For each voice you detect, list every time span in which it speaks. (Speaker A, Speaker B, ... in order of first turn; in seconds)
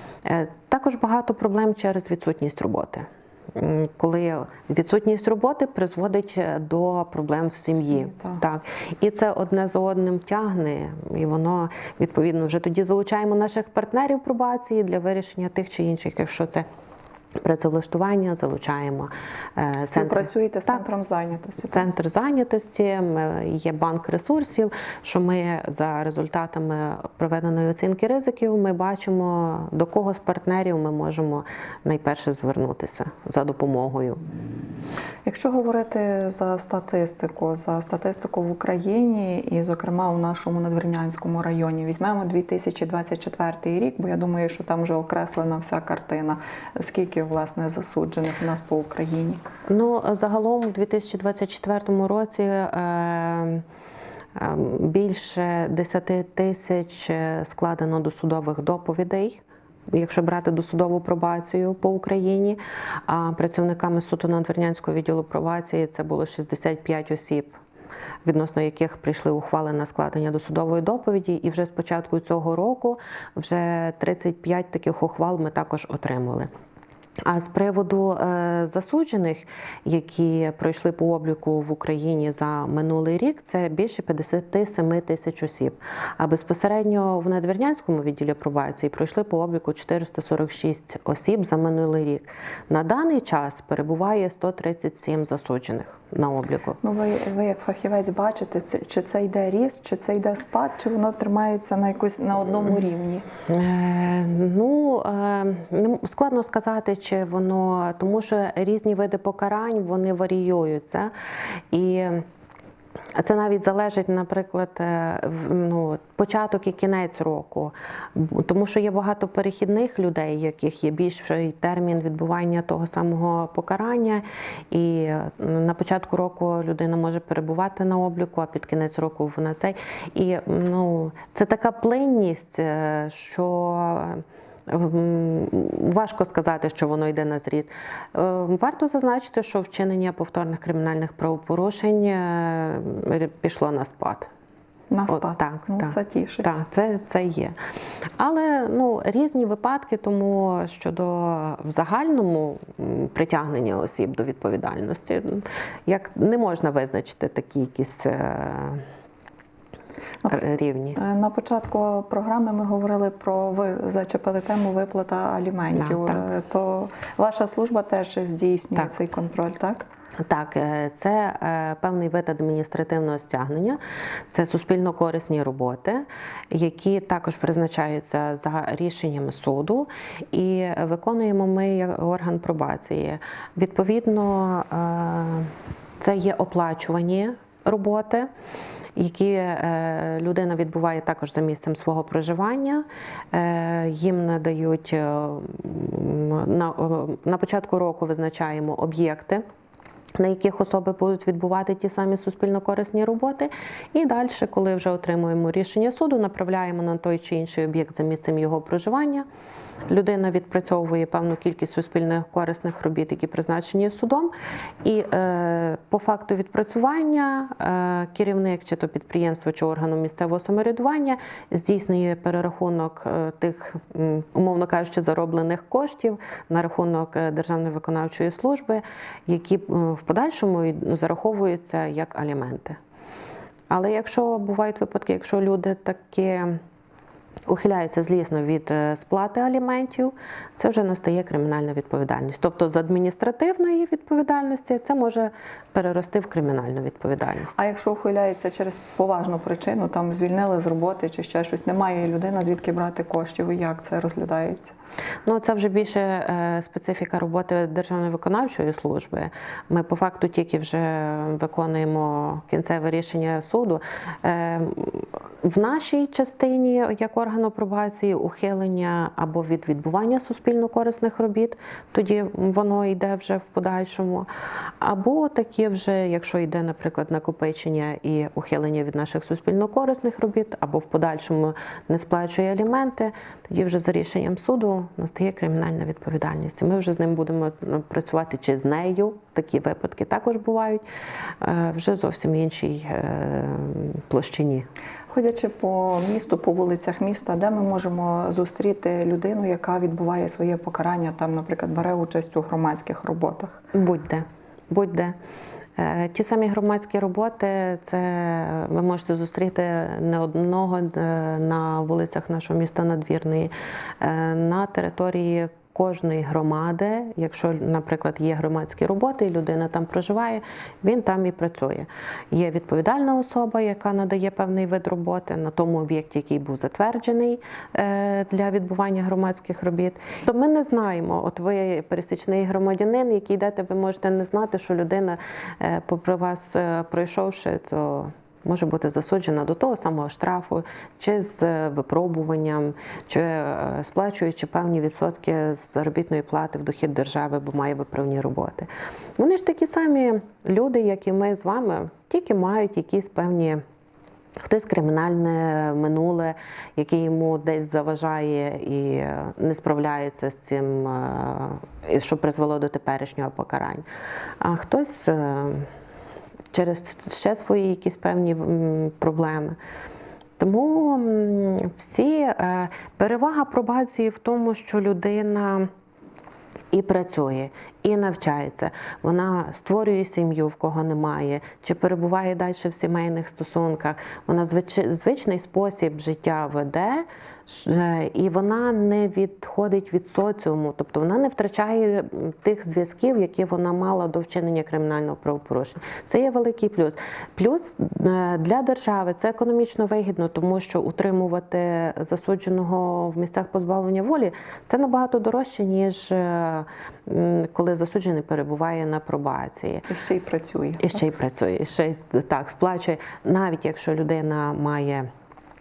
Speaker A: 0.2-16.7, 17.4-20.8, 21.6-34.2, 49.7-53.6, 54.4-59.4, 59.9-67.6, 68.2-76.5, 77.3-96.8, 103.5-111.1, 111.7-112.3, 113.2-144.3, 145.1-147.6, 148.2-158.8, 160.3-161.0, 165.8-166.2, 170.2-173.8, 174.3-188.3, 189.0-199.4, 200.2-209.2, 209.9-214.3, 214.8-232.8, 233.7-236.6, 237.5-247.6, 255.3-274.3, 274.8-290.8, 291.4-294.7, 303.7-305.1, 305.8-353.6, 354.4-363.9, 364.4-365.7, 366.5-369.6, 370.4-375.7, 376.7-409.9, 410.8-415.1
Speaker B: 7.8-8.4, 19.9-21.9, 35.2-49.4, 96.8-103.3, 144.9-146.5, 161.0-169.9, 247.6-254.8, 295.1-303.6, 409.9-411.0